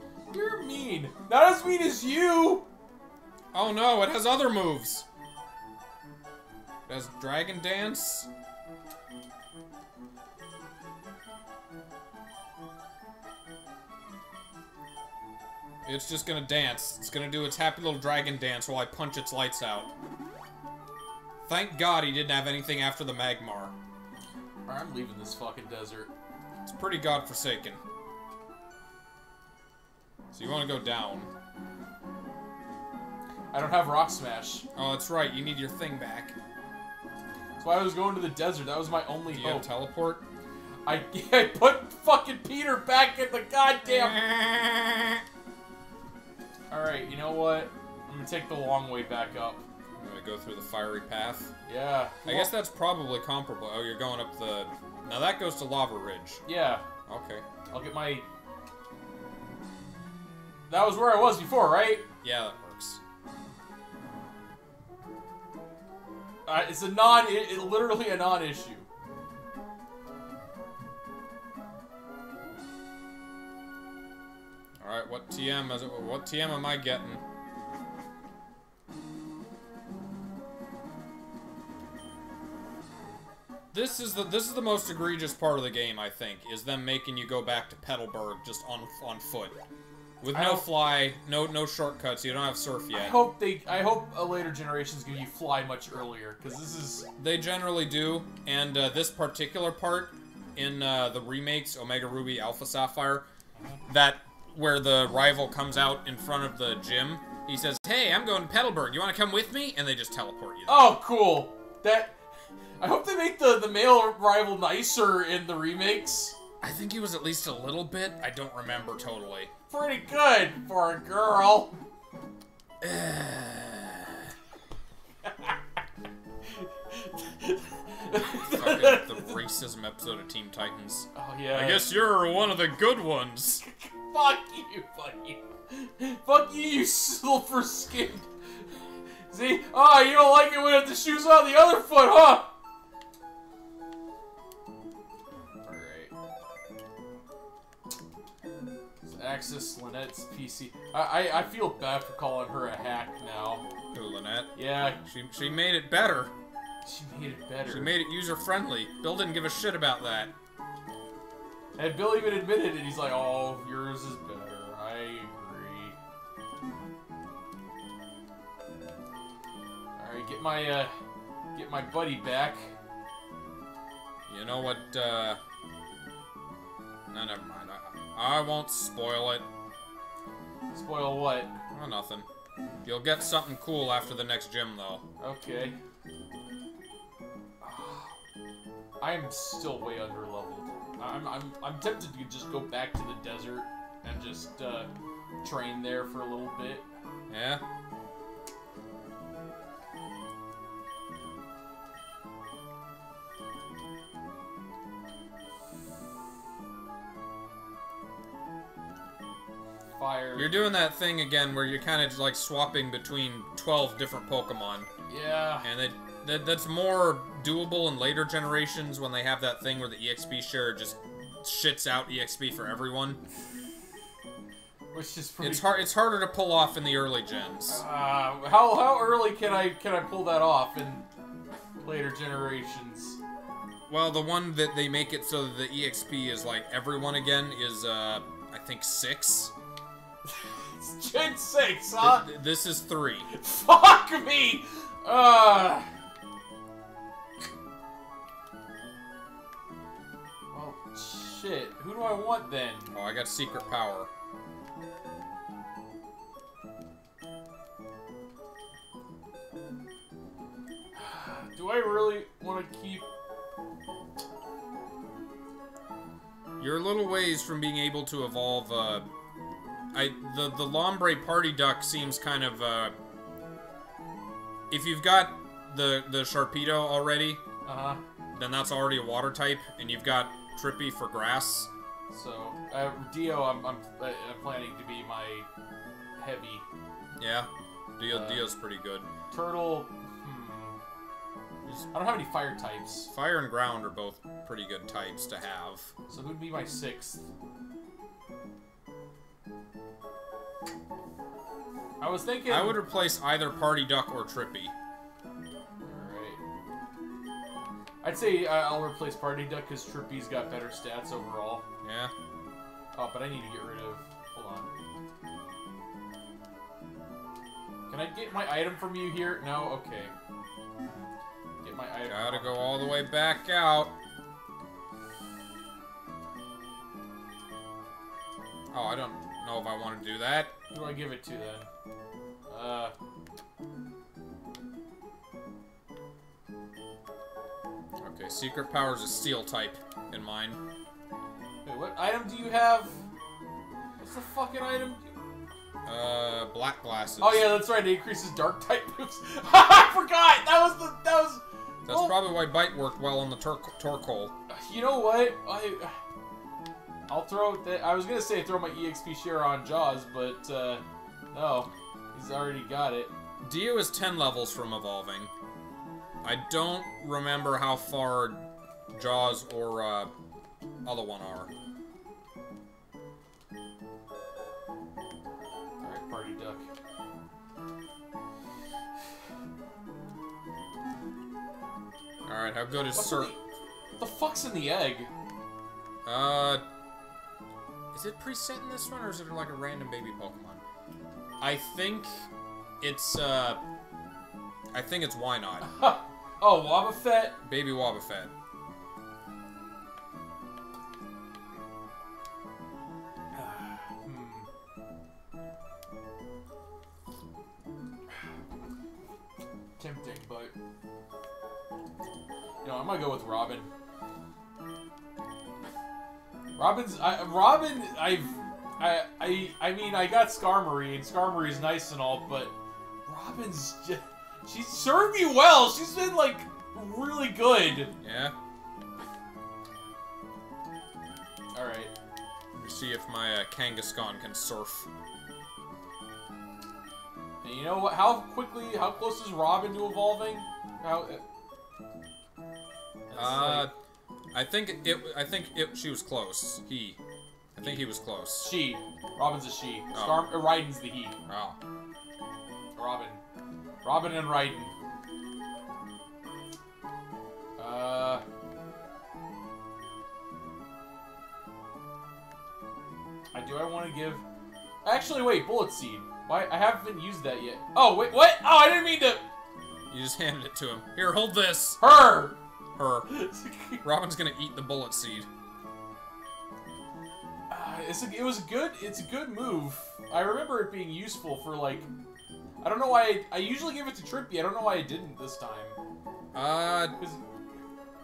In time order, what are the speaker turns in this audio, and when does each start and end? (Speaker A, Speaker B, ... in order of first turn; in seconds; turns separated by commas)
Speaker A: 0.3-2.7, Speaker B: 3.5-5.0, Speaker B: 6.8-8.3, Speaker B: 15.8-19.9, Speaker B: 21.4-23.7, Speaker A: 24.7-26.1, Speaker B: 26.6-27.8, Speaker B: 30.3-31.3, Speaker A: 33.5-34.6, Speaker B: 34.7-36.4, Speaker A: 37.6-39.7, Speaker B: 39.3-40.2, Speaker A: 40.9-44.3, Speaker B: 43.8-45.2, Speaker A: 46.7-49.6, Speaker B: 50.0-51.5, Speaker A: 51.6-52.5, Speaker B: 52.2-56.4, Speaker A: 56.5-56.8, Speaker B: 57.1-57.4, Speaker A: 57.7-58.2, Speaker A: 60.7-62.0, Speaker B: 62.2-63.0, Speaker A: 66.5-68.9, Speaker B: 74.8-77.2, Speaker B: 83.7-89.6, Speaker B: 90.2-93.2, Speaker A: 90.3-90.7, Speaker A: 92.9-97.1, Speaker B: 97.2-103.3, Speaker B: 103.9-110.9, Speaker A: 110.7-112.2, Speaker A: 112.8-116.4, Speaker B: 116.6-119.5, Speaker A: 119.7-121.8, Speaker B: 122.8-124.3, Speaker A: 125.2-125.5, Speaker A: 126.5-129.3, Speaker B: 128.1-133.6, Speaker A: 131.1-131.9, Speaker A: 133.6-138.3, Speaker A: 139.3-142.5, Speaker A: 145.6-146.1, Speaker A: 149.0-153.6, Speaker B: 153.9-156.3, Speaker A: 154.5-155.0, Speaker A: 156.8-157.9, Speaker B: 157.7-160.3, Speaker A: 161.8-165.9, Speaker A: 170.0-170.9, Speaker A: 171.5-172.7, Speaker B: 174.3-175.4, Speaker B: 177.1-179.5, Speaker A: 180.7-181.6, Speaker B: 181.7-182.3, Speaker B: 182.8-185.0, Speaker A: 185.2-185.8, Speaker A: 187.6-188.1, Speaker A: 189.0-194.9, Speaker A: 195.4-196.9, Speaker B: 197.3-197.6, Speaker A: 210.0-210.5, Speaker B: 210.4-214.9, Speaker A: 215.1-215.7, Speaker B: 215.6-223.2, Speaker A: 224.9-225.8, Speaker B: 225.4-227.8, Speaker A: 227.7-231.1, Speaker A: 231.8-233.2, Speaker B: 233.9-239.5, Speaker A: 240.2-242.3, Speaker B: 242.0-243.3, Speaker A: 243.3-245.9, Speaker A: 250.5-252.9, Speaker B: 252.9-254.1, Speaker A: 260.9-263.1, Speaker B: 266.6-269.1, Speaker B: 269.9-272.9, Speaker B: 274.7-277.4, Speaker A: 277.6-278.0, Speaker B: 278.3-281.7, Speaker A: 282.1-285.5, Speaker A: 286.2-286.6, Speaker B: 287.2-289.1, Speaker A: 288.1-288.4, Speaker A: 289.3-290.8, Speaker B: 291.6-291.9, Speaker A: 291.9-293.1, Speaker B: 293.1-295.9, Speaker A: 296.1-297.2, Speaker A: 302.0-302.8, Speaker B: 302.5-304.7, Speaker A: 305.8-306.4, Speaker A: 308.0-311.6, Speaker B: 311.8-312.1, Speaker A: 312.9-314.7, Speaker A: 317.9-320.1, Speaker A: 321.6-322.7, Speaker B: 322.1-323.9, Speaker B: 328.7-330.5, Speaker A: 330.7-331.7, Speaker A: 332.5-332.9, Speaker B: 338.0-340.6, Speaker A: 341.6-343.0, Speaker A: 344.0-345.2, Speaker B: 345.9-347.5, Speaker A: 347.2-352.2, Speaker B: 351.9-354.3, Speaker A: 354.5-355.9, Speaker A: 357.1-363.1, Speaker B: 363.4-365.3, Speaker B: 366.2-368.4, Speaker B: 368.9-370.1, Speaker B: 370.8-371.5, Speaker A: 375.8-376.6, Speaker B: 382.2-383.3, Speaker A: 382.9-383.4, Speaker A: 384.0-385.1, Speaker B: 386.0-386.6, Speaker B: 387.9-390.6, Speaker B: 391.4-392.3, Speaker B: 392.8-393.6, Speaker B: 394.7-395.7, Speaker A: 395.6-397.4, Speaker B: 397.4-398.3, Speaker A: 403.3-404.5, Speaker A: 409.8-410.5, Speaker A: 412.6-413.7, Speaker A: 416.6-422.5, Speaker A: 423.1-427.9, Speaker B: 428.0-428.3, Speaker A: 431.5-431.9, Speaker B: 432.5-434.9, Speaker A: 437.4-441.2, Speaker A: 443.1-443.7, Speaker B: 443.1-443.7, Speaker B: 444.3-447.0, Speaker B: 447.5-448.5, Speaker A: 447.6-451.2, Speaker B: 449.9-450.3, Speaker B: 451.3-451.6, Speaker A: 452.8-453.2, Speaker A: 453.8-454.7, Speaker A: 457.6-458.2, Speaker A: 463.3-464.2, Speaker A: 464.8-469.2, Speaker B: 469.9-471.8, Speaker A: 471.8-472.4, Speaker B: 472.7-473.2, Speaker A: 473.1-473.8, Speaker B: 473.8-475.3, Speaker A: 477.5-481.9, Speaker A: 482.6-485.8, Speaker B: 486.3-486.9